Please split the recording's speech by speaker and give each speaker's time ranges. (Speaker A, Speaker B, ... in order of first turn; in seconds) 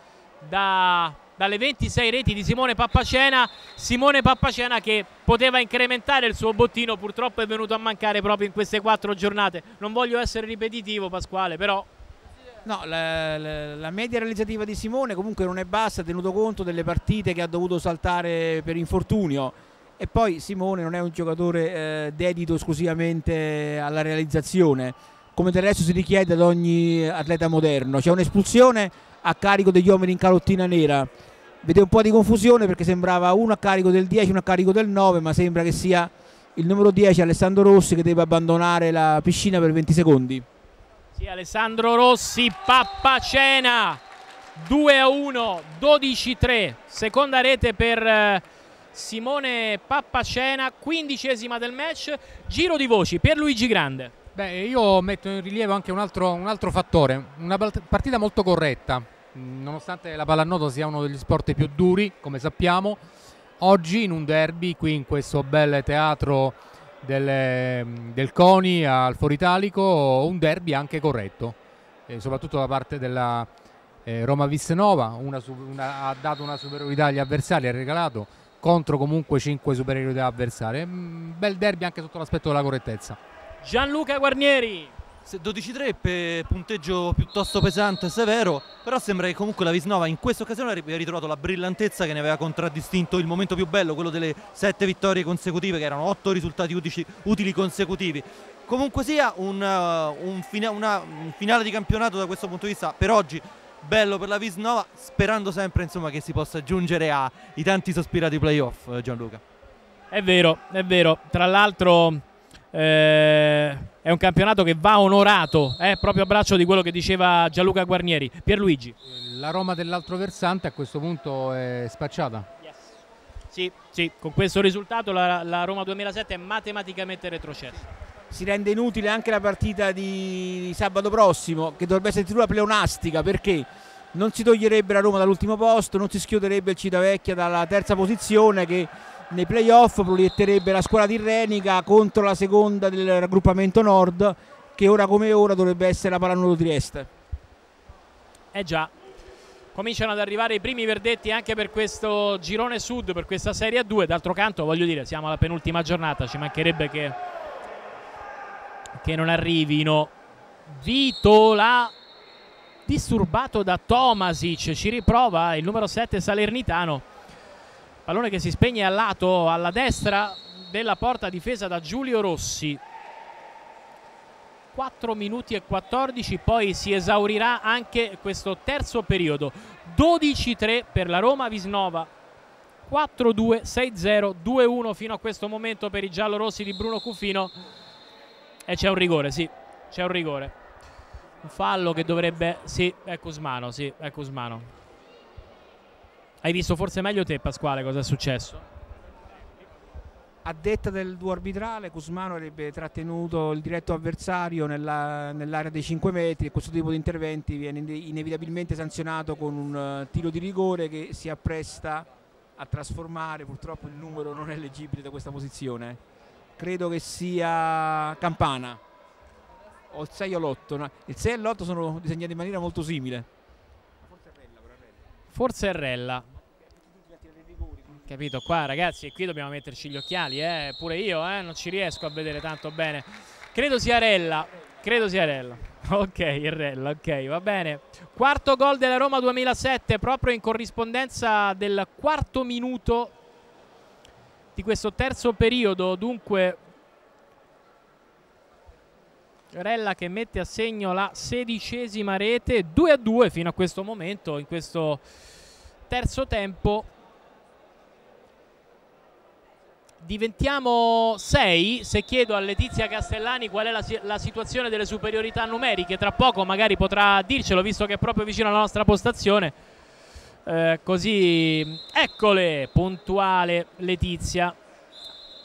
Speaker A: 0.4-11.9, 41.1-44.0, 44.6-54.1, 83.6-84.9, 110.1-119.0, 122.6-122.9, 123.5-127.8, 148.5-148.9, 149.7-157.2, 159.0-160.1, 160.7-161.9, 162.9-167.1, 168.1-172.8, 174.7-182.1, 182.9-187.5, 188.7-190.6, 191.4-194.7, 196.4-198.6, 225.3-226.3, 228.1-243.1, 244.6-246.6, 249.5-255.0, 255.9-256.9, 260.0-269.5, 270.5-274.6
Speaker B: 12.7-31.1, 31.6-40.5, 128.3-147.1, 200.4-216.0, 216.6-218.8, 219.9-223.3, 224.0-225.0, 226.9-228.0
Speaker C: 54.4-63.0, 63.6-71.6, 72.1-73.5, 74.0-83.2, 119.1-122.5
Speaker D: 85.3-109.4